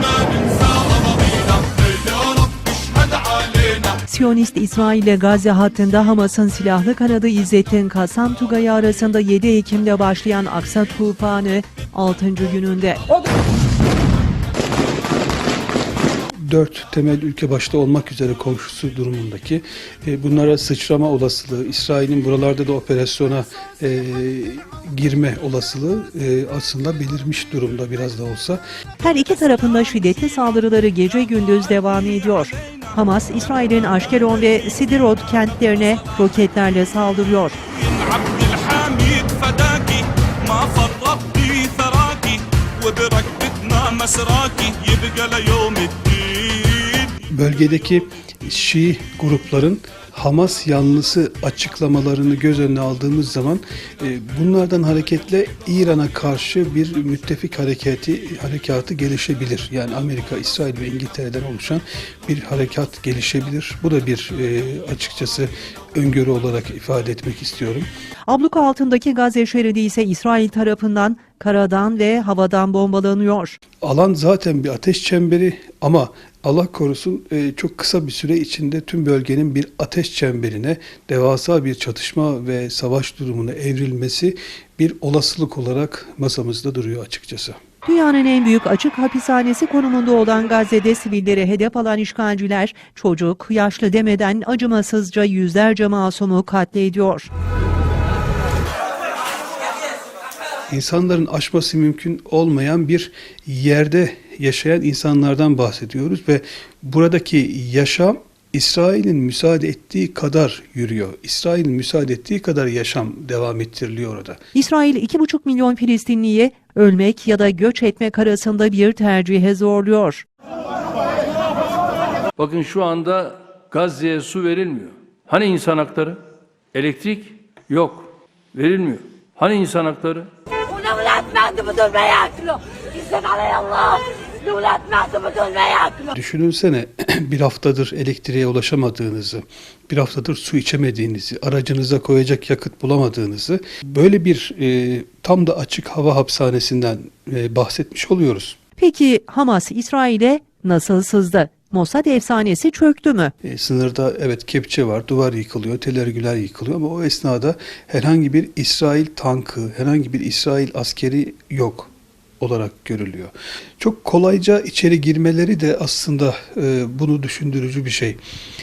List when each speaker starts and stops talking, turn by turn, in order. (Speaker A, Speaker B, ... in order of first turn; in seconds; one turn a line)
Speaker A: 4.0-13.0
Speaker B: 16.3-28.6
Speaker A: 29.0-37.5
Speaker C: 37.8-47.1
Speaker B: 47.3-67.9
Speaker A: 68.3-73.6
Speaker B: 73.8-87.6
Speaker A: 87.8-97.3
Speaker B: 100.7-114.4
Speaker A: 114.5-120.2
Speaker D: 122.3-126.2
Speaker D: 126.7-130.3
Speaker E: 130.7-136.1
Speaker B: 136.1-148.6
Speaker A: 148.8-153.3
Speaker B: 153.4-168.2